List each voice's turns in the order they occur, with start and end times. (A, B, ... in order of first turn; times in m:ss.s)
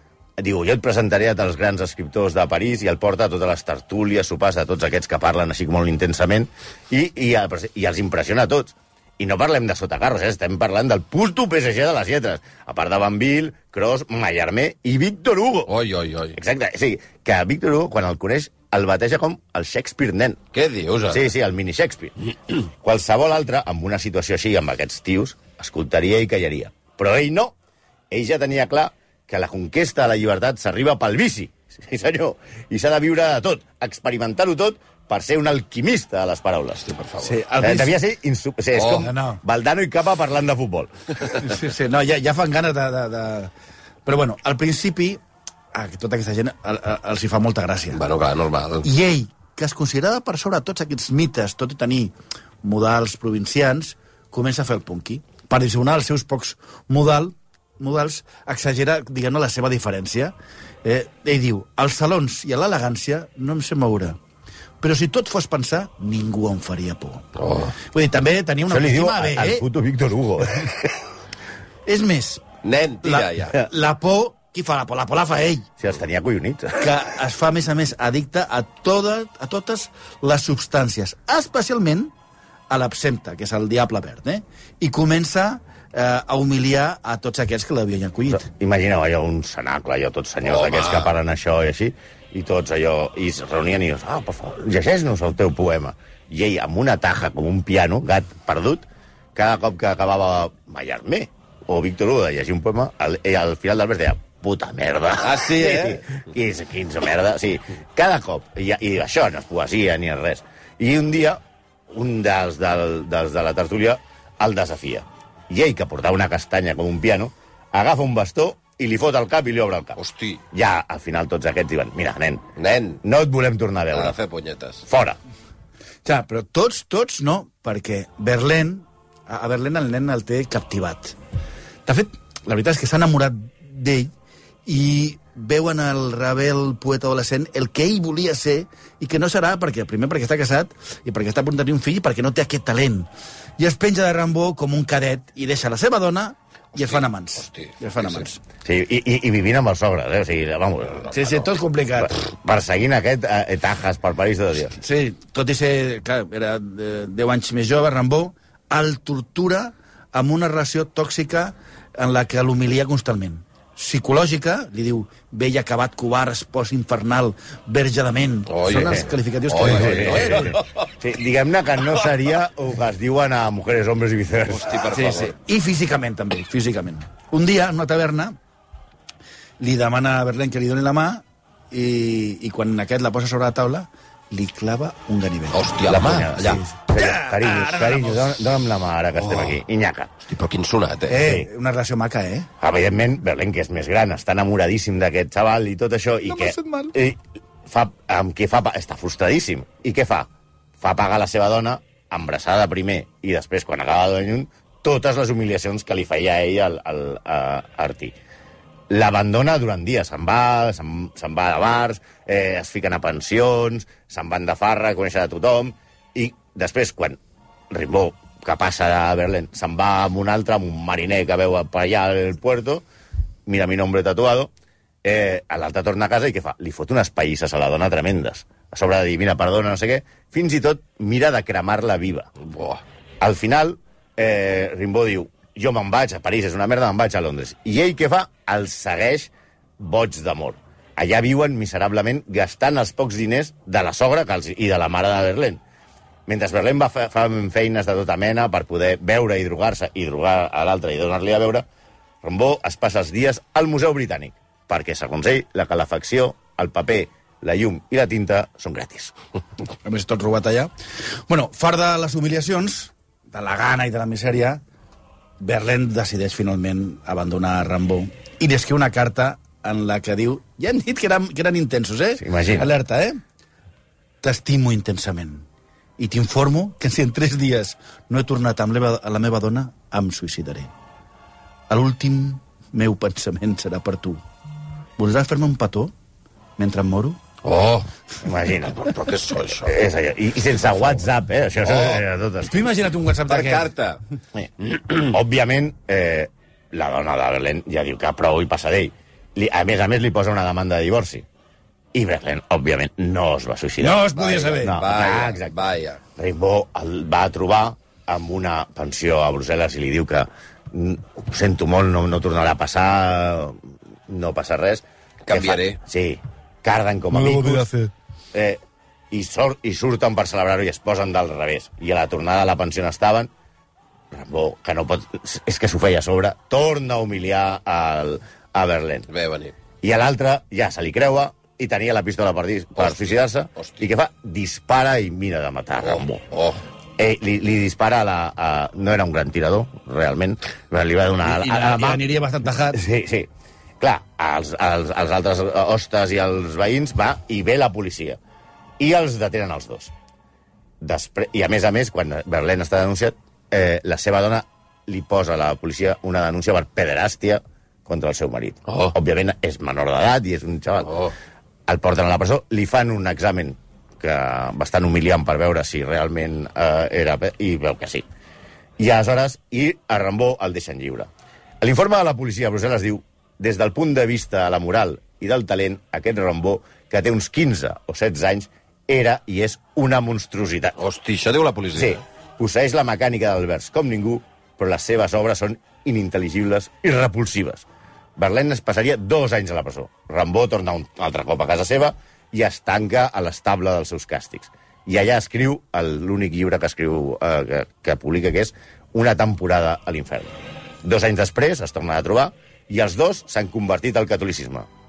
0:00.4-0:15.7 A
0:15.7-0:16.4 B
0:16.3-0:20.4 A
0:20.5-0:21.3 B
0:21.1-0:22.1 A
0:22.7-0:27.5 A
0:28.1-0:36.9 A
0:36.8-0:37.4 B
0:37.2-0:38.0 C
0:37.6-0:41.1 A
0:38.8-0:39.1 B
0:39.0-0:39.4 C
0:41.4-0:43.5 C
0:44.0-0:45.2 C
0:45.7-0:48.0 C
0:47.9-0:48.8 B
0:48.8-1:04.2 C
1:04.8-1:09.6 C
1:07.4-1:07.7 B
1:08.7-1:10.9 A
1:11.8-1:12.4 C
1:12.6-1:13.6 B
1:13.0-1:15.7 C
1:15.8-1:16.9 A
1:16.8-1:22.1 C
1:22.7-1:28.5 C
1:28.3-2:00.0 A
1:30.4-1:31.1 B
1:45.2-1:46.0 B
2:00.0-2:00.4 B
2:00.5-2:02.4 A
2:02.6-2:03.0 B
2:03.0-2:04.2 A
2:03.9-2:04.8 B
2:04.8-2:05.2 A
2:06.0-2:11.1 C
2:11.8-2:14.1 C
2:14.6-2:28.4 C
2:26.8-2:28.2 B
2:28.6-2:31.4 A
2:31.1-2:32.1 C
2:32.0-2:34.8 A
2:34.8-2:50.6 C
2:48.5-2:50.9 B
2:49.6-2:54.8 A
2:54.5-2:55.3 B
2:54.9-2:58.4 C
2:59.6-3:05.6 C
3:05.5-3:06.6 B
3:05.8-3:10.1 A
3:06.8-3:08.3 C
3:10.2-3:11.2 B
3:11.1-3:12.5 C
3:11.2-3:11.5 A
3:12.6-3:20.3 A
3:16.3-3:16.9 C
3:20.8-3:28.1 A
3:28.9-3:37.2 A
3:37.7-3:42.8 A
3:43.5-3:44.5 A
3:45.0-3:52.3 A
3:52.4-3:52.8 B
3:53.2-4:05.6 A
4:06.3-4:11.6 A
4:12.2-4:19.1 A
4:19.8-4:20.7 C
4:21.3-4:24.6 C
4:25.4-4:33.2 C
4:32.2-4:32.7 A
4:34.2-4:35.4 C
4:36.0-4:40.7 C
4:41.7-4:44.2 C
4:45.0-4:45.9 C
4:46.6-4:47.2 C
4:47.4-4:47.9 B
4:48.2-4:49.0 A
4:48.8-4:49.7 B
4:49.6-4:52.6 A
4:51.6-4:52.0 B
4:52.4-4:53.7 C
4:53.3-4:54.0 B
4:54.4-5:01.2 A
4:54.7-4:55.0 B
5:01.9-5:05.5 A
5:03.8-5:04.8 C
5:04.2-5:06.0 B
5:06.2-5:17.7 A
5:15.3-5:15.8 B
5:17.1-5:17.9 C
5:18.3-5:18.6 A
5:19.1-5:23.3 A
5:24.1-5:29.1 A
5:29.1-5:29.5 B
5:29.8-5:36.2 A
5:36.3-5:36.6 B
5:37.0-5:42.0 A
5:41.2-5:42.8 C
5:42.7-5:43.3 A
5:43.8-5:48.2 A
5:48.8-5:49.9 A
5:50.8-6:01.1 A
5:58.7-5:58.9 B
6:01.7-6:08.0 A
6:08.8-6:11.1 A
6:11.6-6:20.7 A
6:20.8-6:22.0 B
6:21.7-6:27.6 A
6:28.2-6:44.7 A